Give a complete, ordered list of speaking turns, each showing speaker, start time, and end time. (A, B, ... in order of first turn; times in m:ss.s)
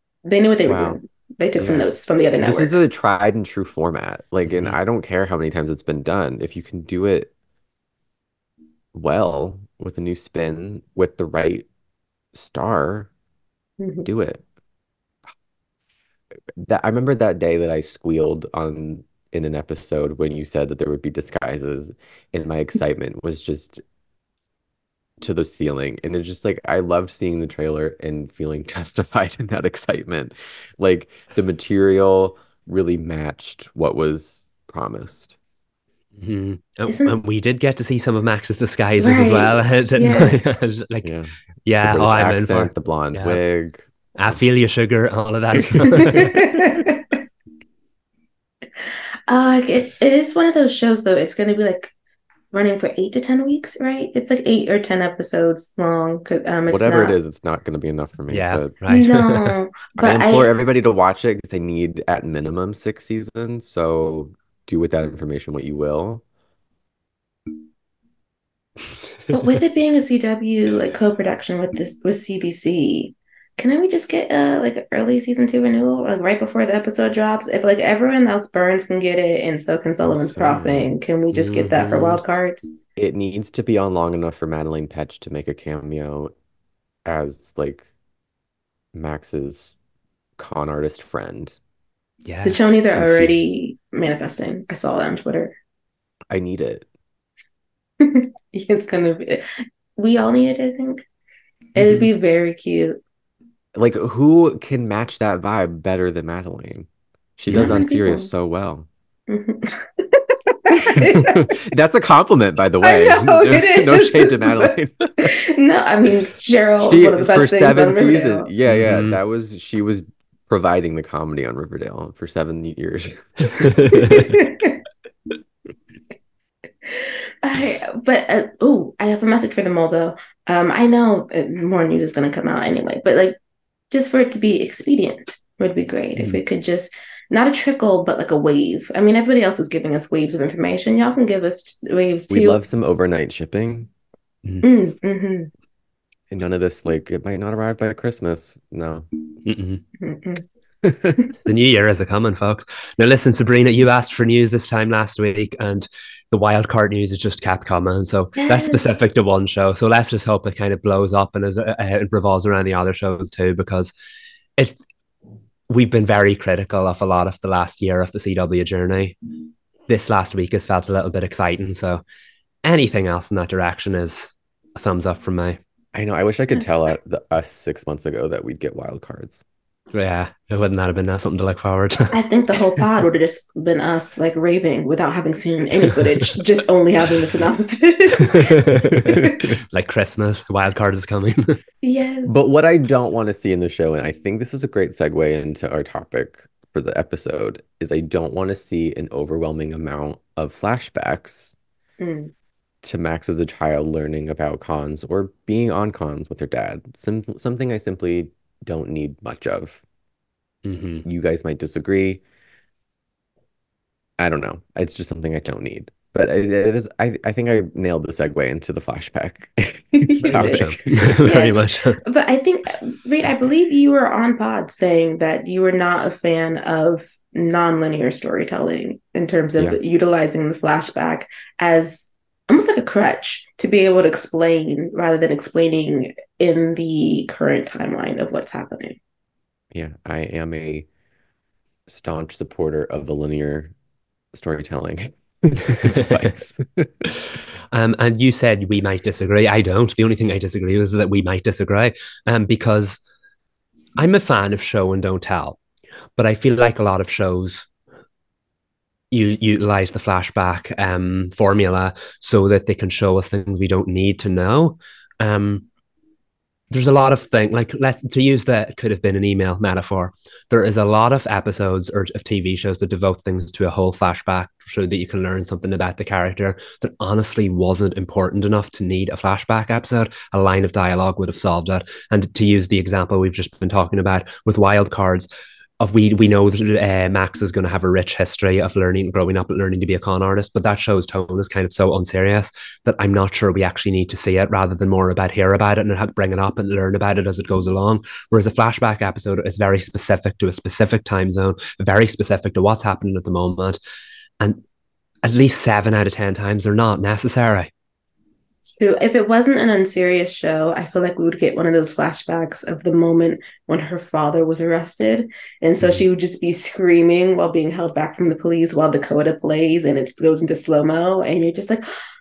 0:00.2-0:02.9 A
0:00.6-0:01.0 B
0:01.6-0:01.9 B
0:02.4-0:07.3 B
0:04.4-0:04.8 C
0:08.9-0:11.6 B
0:12.3-0:13.1 B
0:13.8-0:14.1 A
0:14.0-0:14.4 B
0:16.6-0:23.8 B
0:25.2-0:35.4 B
0:36.2-0:41.1 C
0:36.9-0:37.1 A
0:39.0-0:40.4 A
0:41.0-0:44.4 B
0:41.6-0:43.4 C
0:44.2-0:46.4 C
0:45.5-0:46.8 B
0:45.9-0:47.2 A
0:48.8-0:51.9 A
0:52.5-0:57.2 A
0:56.7-0:58.7 B
0:58.3-0:59.5 C
0:58.9-1:00.5 A
1:00.0-1:06.2 B
1:09.3-1:22.7 A
1:20.0-1:20.9 B
1:21.4-1:22.2 C
1:23.0-1:26.3 B
1:27.0-1:27.9 B
1:28.9-1:29.7 B
1:30.4-1:31.6 B
1:32.2-1:33.3 C
1:32.4-1:35.5 A
1:36.3-1:36.9 B
1:38.0-1:39.4 A
1:40.0-1:41.0 A
1:41.8-1:43.0 A
1:41.8-1:42.1 C
1:43.7-1:48.9 B
1:47.5-1:47.8 C
1:47.5-1:48.3 A
1:49.3-1:51.5 A
1:50.7-1:55.3 B
1:52.8-1:58.5 A
1:56.8-2:04.2 B
1:58.7-1:59.2 C
2:03.6-2:04.3 C
2:03.9-2:04.8 A
2:06.8-2:13.4 A
2:13.9-2:22.6 A
2:16.2-2:16.4 C
2:22.3-2:23.9 B
2:24.6-2:25.5 A
2:26.3-2:29.1 B
2:29.4-2:29.8 C
2:30.0-2:30.4 A
2:30.8-2:31.2 B
2:31.4-2:43.9 C
2:38.4-2:38.8 A
2:45.7-2:49.2 C
2:49.9-2:52.0 C
2:52.6-2:55.6 C
2:55.9-2:59.4 B
2:59.9-3:02.1 C
3:02.1-3:09.4 A
3:08.2-3:11.6 C
3:11.8-3:12.4 A
3:12.2-3:21.6 B
3:22.0-3:22.3 A
3:22.8-3:29.8 B
3:30.6-3:31.0 C
3:31.0-3:32.2 B
3:34.2-3:41.2 B
3:40.0-3:59.0 A
3:40.2-3:42.0 C
3:59.7-4:00.9 B
4:01.9-4:03.7 B
4:04.3-4:06.9 B
4:07.7-4:13.0 C
4:14.0-4:15.6 C
4:16.2-4:17.7 C
4:19.1-4:25.6 C
4:26.7-4:45.3 C
4:45.8-5:03.8 C
5:05.2-5:07.7 C
5:08.7-5:21.9 A